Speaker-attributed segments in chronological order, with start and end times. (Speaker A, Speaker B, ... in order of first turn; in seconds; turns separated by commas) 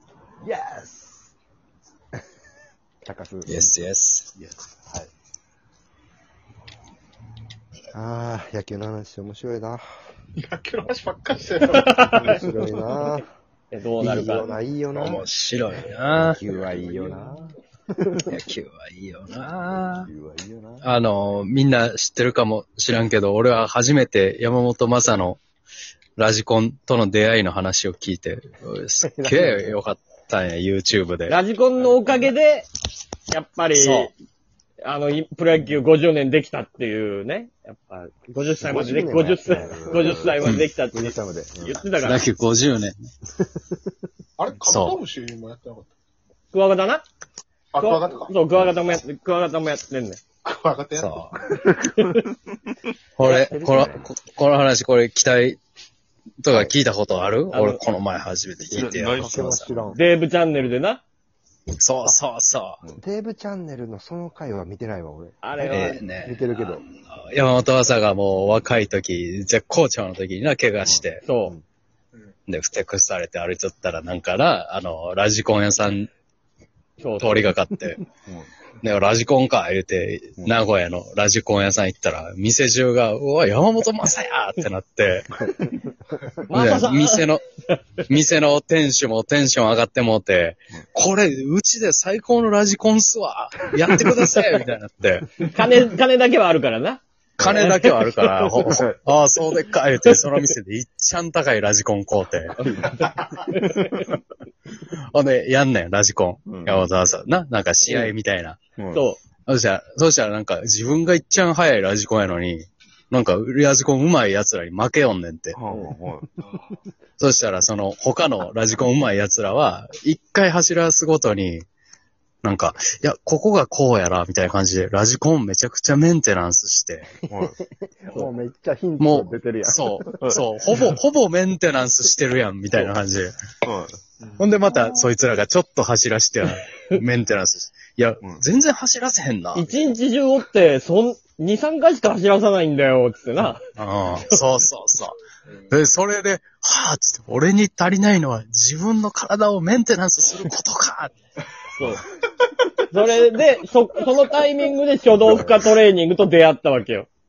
Speaker A: 0.4-1.3, Speaker B: 3.0-3.8, Speaker C: 3.5-4.3, Speaker A: 4.3-5.1, Speaker B: 7.9-9.9, Speaker D: 10.4-12.6, Speaker E: 11.7-12.2, Speaker B: 12.3-13.3, Speaker E: 13.7-14.5, Speaker B: 14.0-15.3, Speaker C: 14.9-16.4, Speaker B: 16.1-18.2, Speaker C: 18.2-20.1, Speaker B: 20.0-20.9, Speaker C: 20.8-25.4, Speaker C: 26.2-31.4, Speaker B: 29.0-29.8, Speaker E: 31.3-32.7, Speaker E: 33.3-34.1, Speaker C: 33.7-34.1, Speaker E: 34.8-42.3, Speaker B: 38.6-40.4, Speaker A: 39.5-40.5, Speaker C: 40.4-40.7, Speaker B: 40.9-41.8, Speaker C: 41.9-43.0, Speaker B: 43.4-43.8, Speaker D: 44.4-45.9, Speaker C: 44.6-45.0, Speaker E: 46.5-47.0, Speaker D: 47.7-48.4, Speaker E: 47.8-50.2, Speaker D: 50.4-51.2, Speaker C: 51.0-51.4, Speaker E: 51.8-52.3, Speaker C: 53.2-55.6, Speaker B: 53.2-54.1, Speaker C: 56.4-59.7, Speaker E: 57.5-57.8, Speaker A: 58.7-59.9, Speaker B: 59.1-60.0, Speaker E: 59.9-61.0, Speaker C: 61.7-62.8, Speaker B: 63.0-66.8, Speaker E: 65.4-66.0, Speaker C: 65.6-71.2, Speaker A: 70.8-71.1, Speaker E: 71.2-71.5, Speaker C: 72.5-76.1, Speaker E: 77.0-77.5, Speaker C: 77.2-78.0, Speaker A: 78.2-78.5, Speaker C: 78.8-85.7, Speaker E: 86.5-87.3, Speaker C: 86.5-87.4, Speaker C: 88.1-95.5, Speaker E: 95.4-97.8, Speaker A: 97.4-99.0, Speaker C: 97.4-102.5, Speaker A: 102.6-103.0, Speaker E: 102.7-104.1, Speaker C: 104.9-108.6, Speaker A: 106.5-106.9, Speaker E: 107.9-108.1, Speaker A: 108.8-109.0, Speaker E: 108.9-109.2, Speaker C: 109.5-115.6, Speaker A: 115.5-116.3, Speaker D: 116.4-116.7, Speaker C: 117.2-121.7, Speaker C: 122.4-127.1, Speaker A: 127.3-127.6, Speaker B: 127.3-130.1, Speaker C: 129.0-133.3, Speaker A: 133.6-134.0, Speaker C: 134.4-139.8, Speaker E: 139.5-143.6, Speaker C: 143.8-145.2, Speaker C: 145.7-151.1, Speaker E: 151.8-152.0, Speaker E: 152.9-157.1, Speaker B: 155.3-155.5